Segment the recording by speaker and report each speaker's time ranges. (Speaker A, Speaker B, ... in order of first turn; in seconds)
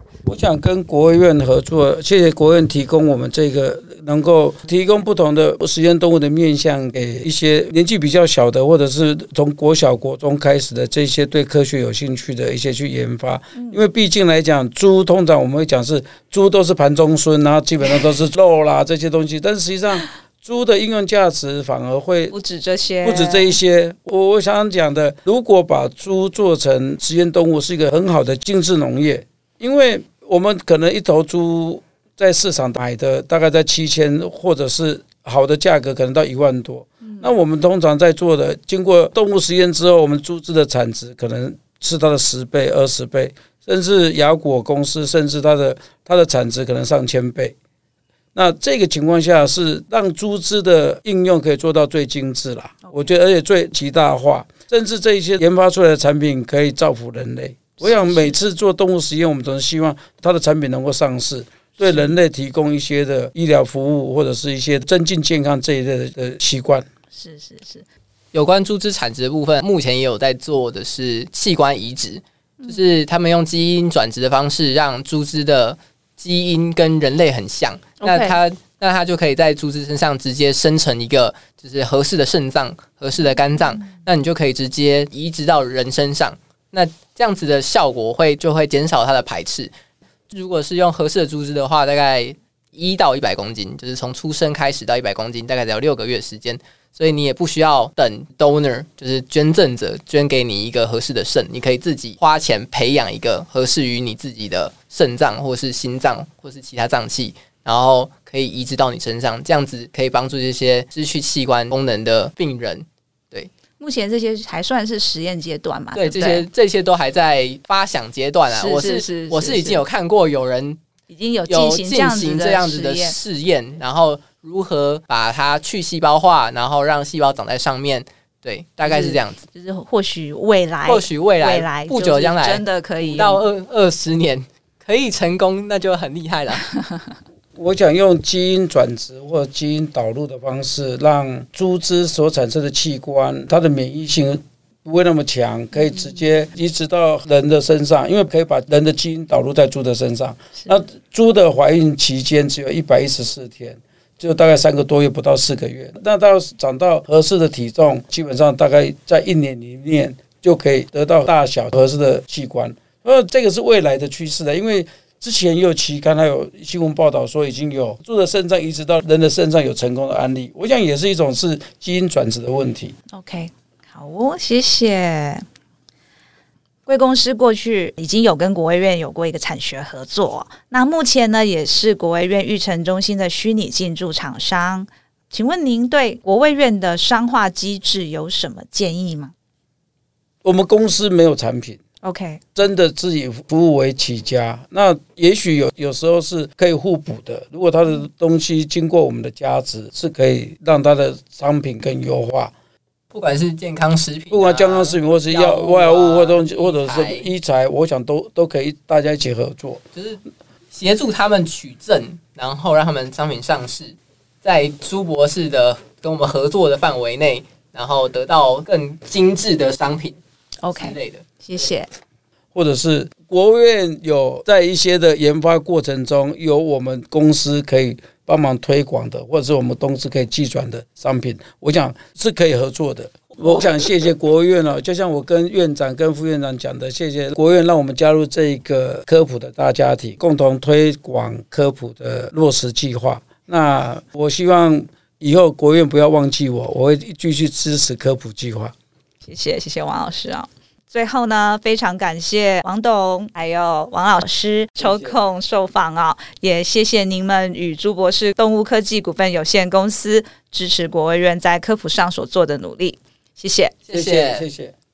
Speaker A: 0.3-22.4, 23.0-47.5, 48.4-66.8, 137.6-172.9, 190.4-191.8, 192.6-202.5, 204.3-209.8, 222.5-248.7, 254.8-255.2, 263.9-264.8
Speaker B: 13.6-13.8, 22.3-23.6, 37.0-37.3, 52.9-53.1, 57.8-58.4, 61.8-62.1, 67.1-67.8, 78.0-78.4, 113.8-116.5, 118.5-119.8, 121.1-123.2, 128.8-133.4, 145.8-146.2, 173.1-175.4, 176.9-189.3, 192.0-192.4, 220.6-221.9, 249.2-263.8
Speaker C: 68.3-89.7, 90.3-113.5, 115.9-120.8, 121.5-129.5, 130.8-136.7, 203.1-207.3, 209.9-210.2, 210.7-220.2, 220.7-221.7, 233.4-233.7, 263.9-264.5